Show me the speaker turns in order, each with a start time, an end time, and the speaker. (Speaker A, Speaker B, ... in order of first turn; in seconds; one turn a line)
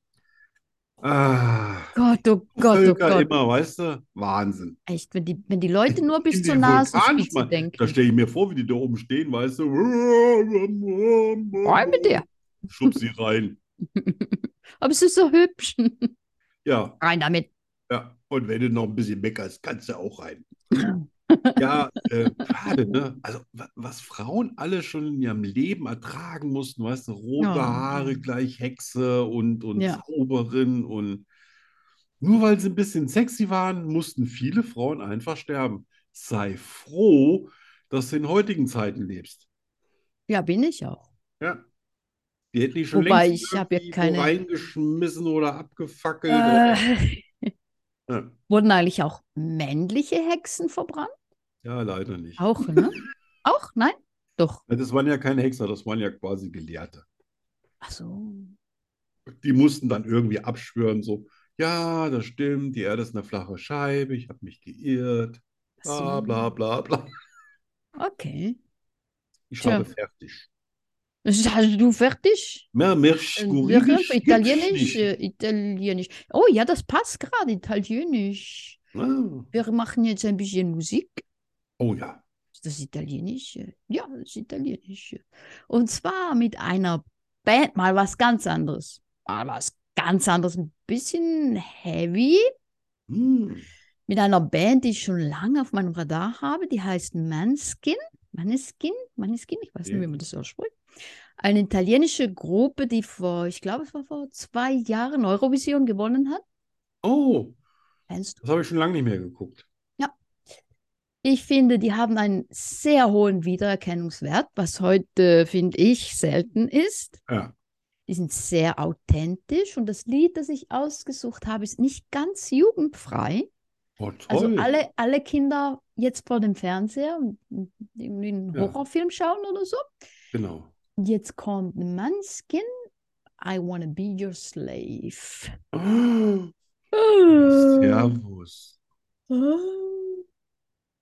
Speaker A: 1.0-1.9
Speaker B: 1.9-3.3
Speaker A: 2.5-4.8
Speaker B: 4.9-8.0
Speaker A: 5.9-13.6
Speaker B: 11.6-12.2
Speaker B: 13.9-16.1
Speaker A: 16.6-17.0
Speaker B: 17.0-17.5
Speaker A: 17.9-20.5
Speaker B: 20.7-21.6
Speaker A: 21.6-31.2
Speaker B: 27.4-28.2
Speaker B: 29.8-30.0
Speaker A: 32.2-39.5
Speaker B: 40.3-41.1
Speaker A: 42.5-46.9
Speaker B: 42.9-44.3
Speaker B: 46.3-47.5
Speaker A: 48.1-48.3
Speaker B: 48.5-51.1
Speaker A: 51.6-52.8
Speaker B: 52.4-54.6
Speaker A: 54.7-57.0
Speaker B: 57.8-58.5
Speaker A: 59.3-67.1
Speaker B: 65.8-66.5
Speaker B: 68.0-68.6
Speaker A: 69.5-70.5
Speaker B: 69.6-69.8
Speaker B: 71.2-72.7
Speaker A: 72.7-75.1
Speaker B: 73.4-78.8
Speaker A: 78.9-79.5
Speaker B: 79.5-81.2
Speaker A: 81.8-82.2
Speaker B: 82.5-92.5
Speaker A: 93.1-93.7
Speaker B: 94.1-100.7
Speaker B: 101.4-106.4
Speaker A: 107.0-107.5
Speaker B: 108.1-108.4
Speaker A: 108.4-109.6
Speaker B: 111.2-117.2
Speaker A: 117.3-117.5
Speaker B: 118.1-123.5
Speaker A: 124.0-124.7
Speaker B: 124.3-129.8
Speaker A: 130.3-130.7
Speaker B: 131.0-132.7
Speaker B: 133.4-135.5
Speaker A: 135.7-136.5
Speaker B: 136.9-138.1
Speaker A: 137.4-138.8
Speaker B: 139.3-140.2